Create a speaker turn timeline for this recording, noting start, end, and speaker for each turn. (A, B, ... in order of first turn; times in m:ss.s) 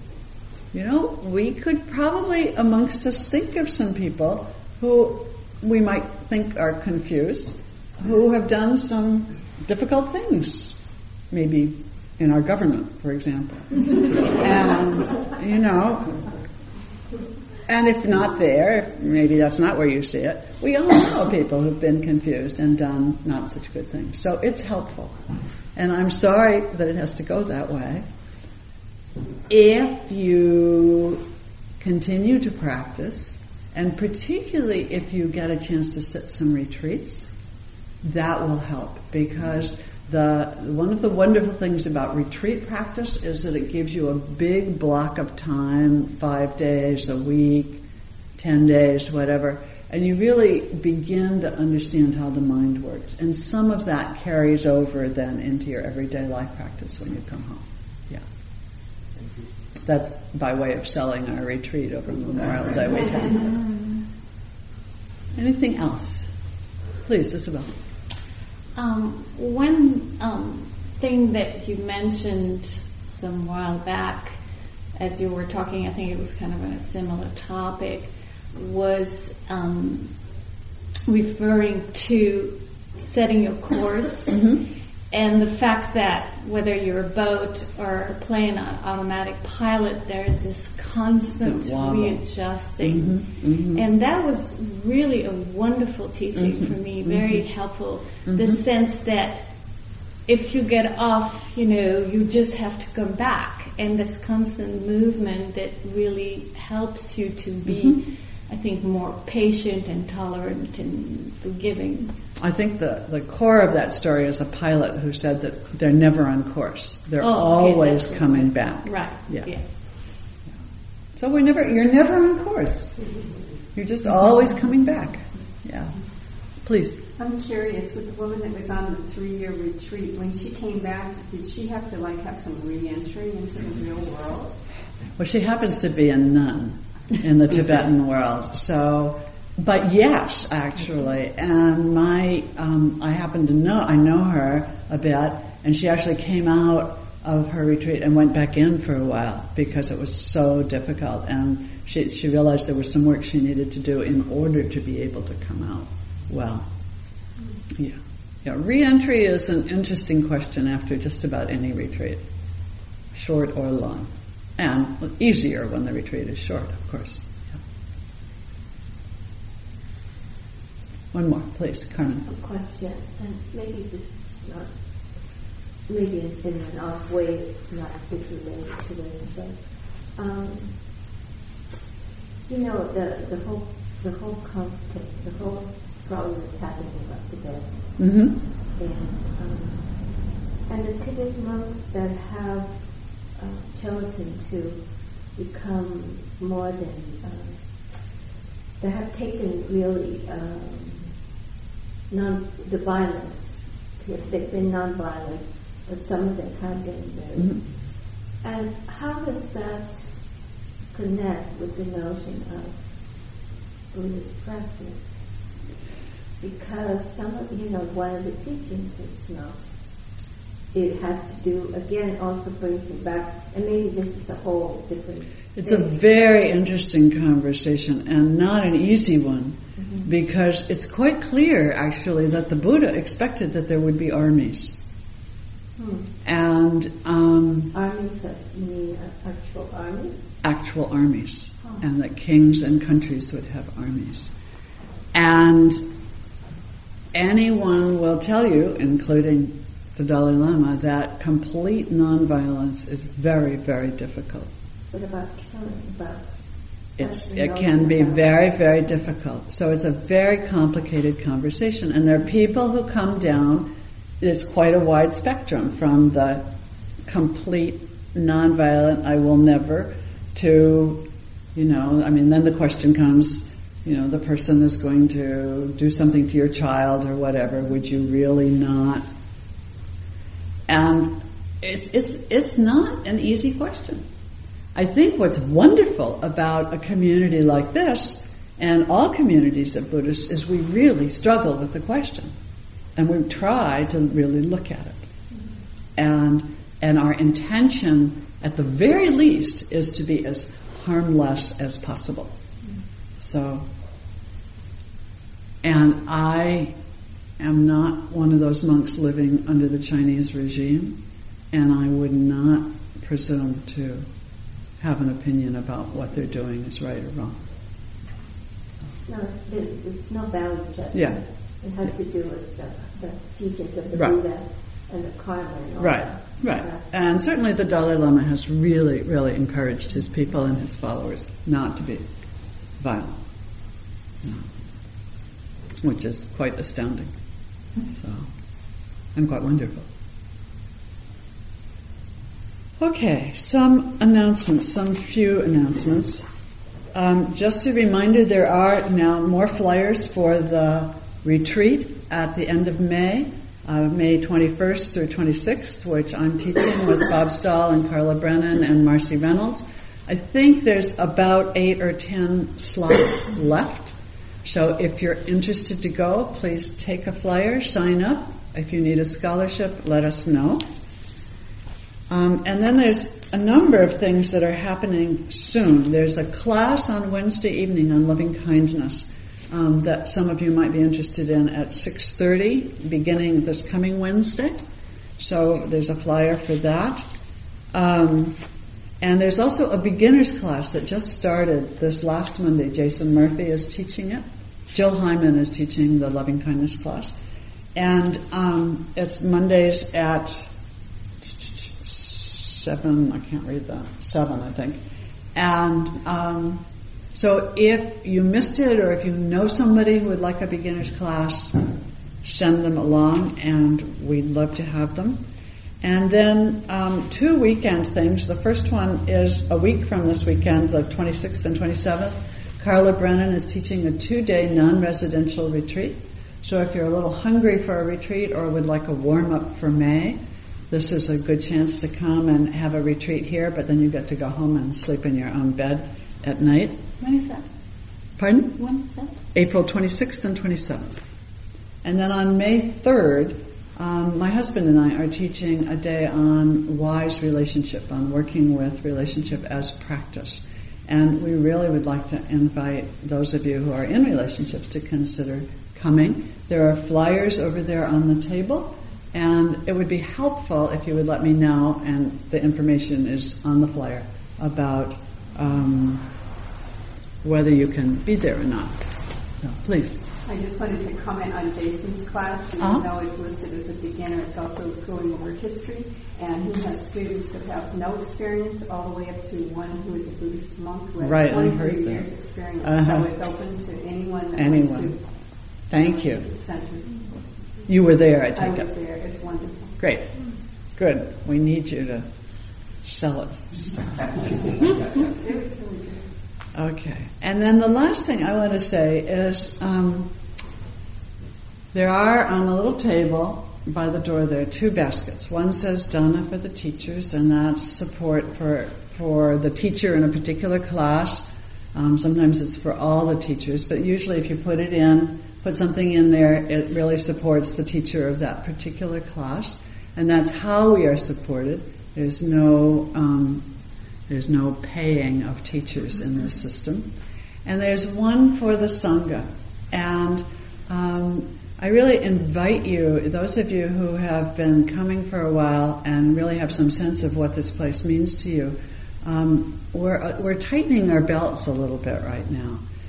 0:00.7-0:10.8 A
0:11.3-0:16.2 A
0:17.7-0:25.2 A
0:25.7-0:28.0 A
0:29.5-0:31.2 A
0:31.8-0:37.3 A
0:38.0-0:47.8 A
0:48.4-0:58.2 A
0:59.8-1:03.6 A
1:05.3-1:06.3 A
1:07.0-1:07.8 A
1:08.7-1:14.4 B
1:14.9-1:20.1 B
1:21.0-1:24.5 B
1:24.3-1:24.6 A
1:25.1-1:39.5 B
1:31.4-1:32.2 A
1:32.8-1:33.8 A
1:36.4-1:37.4 A
1:38.2-1:38.6 A
1:40.2-1:52.2 B
1:47.7-1:47.9 A
1:52.4-1:59.5 A
1:57.2-1:59.6 B
2:01.2-2:03.0 A
2:03.7-2:06.0 A
2:06.6-2:07.0 A
2:07.2-2:14.6 C
2:15.2-2:36.7 A
2:37.7-2:42.2 A
2:43.1-2:47.6 A
2:51.1-2:52.2 A
2:52.2-3:01.2 D
3:02.4-3:08.2 D
3:08.0-3:08.3 A
3:08.7-3:18.2 D
3:18.8-3:21.4 D
3:22.1-3:35.4 D
3:27.3-3:27.6 A
3:36.4-3:46.3 D
3:45.6-3:54.8 A
3:49.8-3:50.1 D
3:55.8-3:56.1 D
3:56.2-3:57.7 A
3:57.7-4:00.3 D
4:00.4-4:04.3 A
4:05.1-4:05.8 A
4:07.1-4:14.5 A
4:14.9-4:18.4 D
4:17.0-4:23.7 A
4:24.2-4:26.4 A
4:27.0-4:39.0 A
4:40.7-4:44.0 A
4:44.7-4:52.3 A
4:53.0-4:55.0 A
4:56.0-5:02.3 A
5:03.2-5:03.7 A
5:05.6-5:06.7 A
5:07.4-5:11.0 A
5:11.5-5:14.1 A
5:14.8-5:17.4 A
5:19.0-5:27.0 D
5:20.9-5:21.2 A
5:25.8-5:32.0 A
5:32.8-5:33.2 A
5:34.2-5:34.5 A
5:35.8-5:37.1 A
5:37.8-5:38.3 A
5:39.1-5:39.9 A
5:42.8-5:46.2 A
5:46.9-6:10.6 A
6:12.1-6:24.6 A
6:25.2-6:27.0 A
6:27.7-6:28.4 A
6:29.0-6:37.1 A
6:37.7-6:40.5 A
6:41.2-6:44.8 A
6:45.3-6:46.6 A
6:47.1-6:51.6 A
6:52.2-6:55.2 A
6:55.8-7:10.2 A
7:10.7-7:17.4 A
7:18.2-7:18.6 A
7:18.6-7:19.0 B
7:19.3-7:21.0 A
7:21.8-7:46.1 A
7:47.2-7:48.8 A
7:49.4-7:50.0 A
7:50.2-8:05.0 C
8:01.0-8:03.1 A
8:04.3-8:05.0 A
8:05.7-8:07.1 C
8:05.7-8:06.2 A
8:07.6-8:08.7 A
8:08.3-8:09.8 C
8:09.8-8:10.1 A
8:10.8-8:12.1 A
8:12.8-8:14.3 A
8:14.9-8:16.1 C
8:16.5-8:20.1 A
8:21.7-8:43.5 A
8:44.1-8:46.9 A
8:47.4-9:02.6 A